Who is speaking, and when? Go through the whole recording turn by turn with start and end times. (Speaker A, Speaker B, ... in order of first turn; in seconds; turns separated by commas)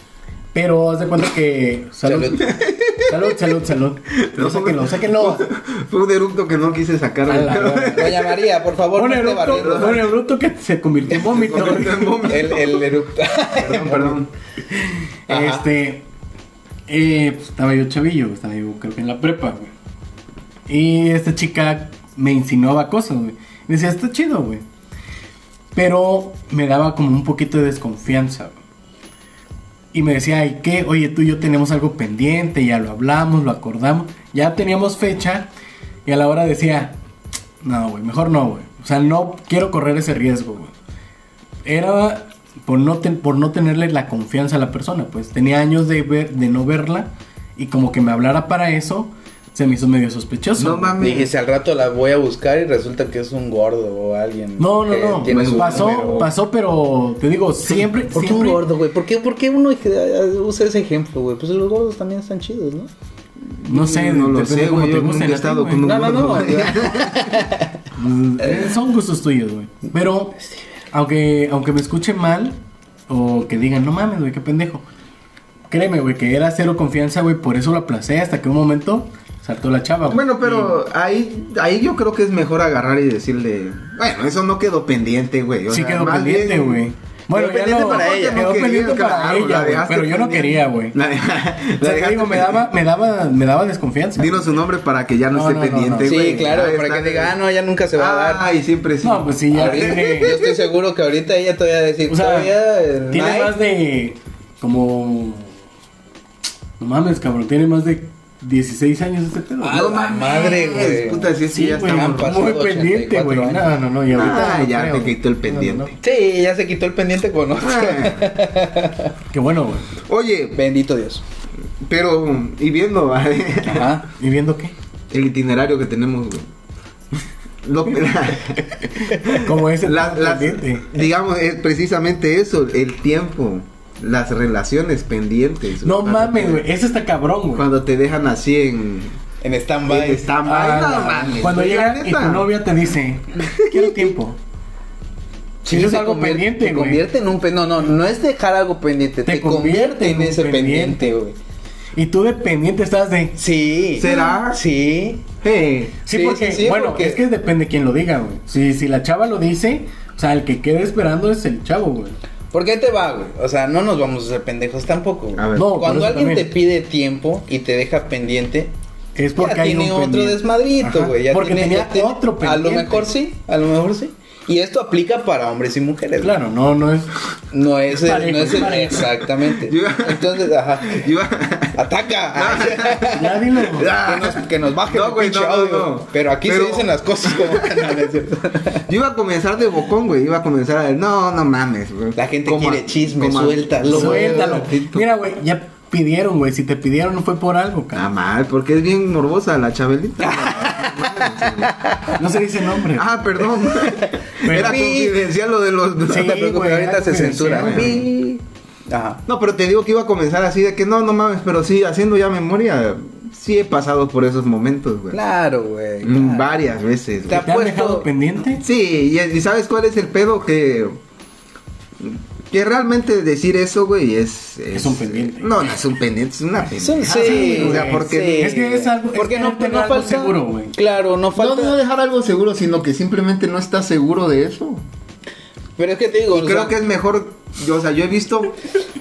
Speaker A: 0.5-2.5, Speaker B: 2.0-2.5, Speaker C: 2.4-3.2, Speaker A: 3.1-5.5, Speaker C: 4.1-8.4, Speaker A: 7.3-8.2, Speaker B: 7.9-10.1, Speaker A: 8.9-12.3, Speaker C: 9.5-10.0, Speaker C: 11.1-12.9, Speaker B: 12.2-14.2, Speaker C: 13.6-14.3, Speaker B: 15.3-15.7, Speaker A: 15.3-16.1, Speaker A: 16.9-19.7, Speaker A: 20.7-24.6, Speaker A: 25.8-28.6, Speaker A: 29.9-35.5, Speaker A: 36.1-37.0, Speaker A: 37.6-40.7, Speaker A: 41.6-51.0, Speaker C: 50.6-51.3, Speaker B: 51.0-56.3, Speaker A: 54.6-58.6, Speaker C: 55.3-56.3, Speaker B: 58.1-62.9, Speaker C: 63.5-67.5, Speaker A: 63.7-66.7, Speaker B: 65.8-67.7, Speaker A: 67.9-70.4, Speaker B: 68.4-68.7, Speaker A: 70.9-74.8, Speaker A: 75.7-80.8, Speaker C: 80.1-92.7, Speaker A: 85.7-91.0, Speaker B: 87.4-88.5, Speaker A: 91.8-94.6, Speaker C: 94.2-97.3, Speaker A: 95.3-96.2, Speaker B: 96.0-98.5, Speaker C: 98.0-100.6, Speaker A: 99.0-100.4, Speaker B: 99.5-103.6, Speaker A: 102.1-102.5, Speaker A: 103.1-105.5, Speaker A: 106.8-109.9, Speaker B: 109.6-113.7, Speaker C: 109.7-112.4, Speaker A: 111.5-116.0, Speaker C: 114.1-116.0, Speaker B: 116.0-119.1, Speaker C: 117.6-118.3, Speaker A: 119.3-119.9, Speaker C: 120.0-120.6, Speaker B: 120.6-121.2, Speaker C: 121.8-123.9, Speaker B: 123.7-124.1, Speaker A: 124.2-124.8, Speaker C: 125.1-126.5, Speaker C: 127.2-136.7, Speaker A: 129.3-130.9, Speaker A: 135.8-137.7, Speaker C: 137.6-139.2, Speaker B: 139.4-140.3, Speaker C: 139.9-142.5, Speaker A: 140.4-144.4, Speaker C: 143.6-144.1, Speaker B: 145.6-151.4, Speaker A: 145.7-147.0, Speaker A: 149.2-151.1, Speaker A: 152.0-153.4, Speaker B: 153.4-155.3, Speaker C: 154.0-154.6, Speaker C: 155.4-156.0, Speaker A: 156.1-162.2, Speaker B: 156.1-157.2, Speaker B: 162.5-168.7, Speaker C: 165.4-165.8, Speaker A: 165.6-166.5, Speaker A: 169.2-173.1, Speaker B: 169.4-176.3, Speaker A: 176.2-177.1, Speaker B: 177.5-181.1, Speaker A: 177.9-179.1, Speaker C: 179.6-181.8, Speaker B: 181.8-188.9, Speaker C: 182.3-188.0, Speaker A: 183.1-183.9, Speaker C: 188.9-195.1, Speaker B: 192.2-195.0, Speaker A: 193.9-198.1, Speaker C: 197.9-201.8, Speaker B: 200.2-202.2, Speaker A: 202.1-203.3, Speaker C: 202.9-206.4, Speaker B: 203.7-205.2, Speaker A: 204.4-204.9, Speaker A: 206.1-208.0, Speaker B: 206.1-209.2, Speaker C: 207.4-208.1, Speaker C: 209.3-215.2, Speaker B: 215.1-216.6, Speaker C: 216.0-217.5, Speaker B: 217.3-218.1, Speaker A: 217.3-218.7, Speaker C: 218.6-221.0, Speaker C: 222.0-228.6, Speaker A: 224.7-225.5, Speaker B: 226.8-231.8, Speaker A: 227.1-230.7, Speaker C: 231.3-234.8, Speaker B: 235.8-236.8, Speaker C: 236.3-238.6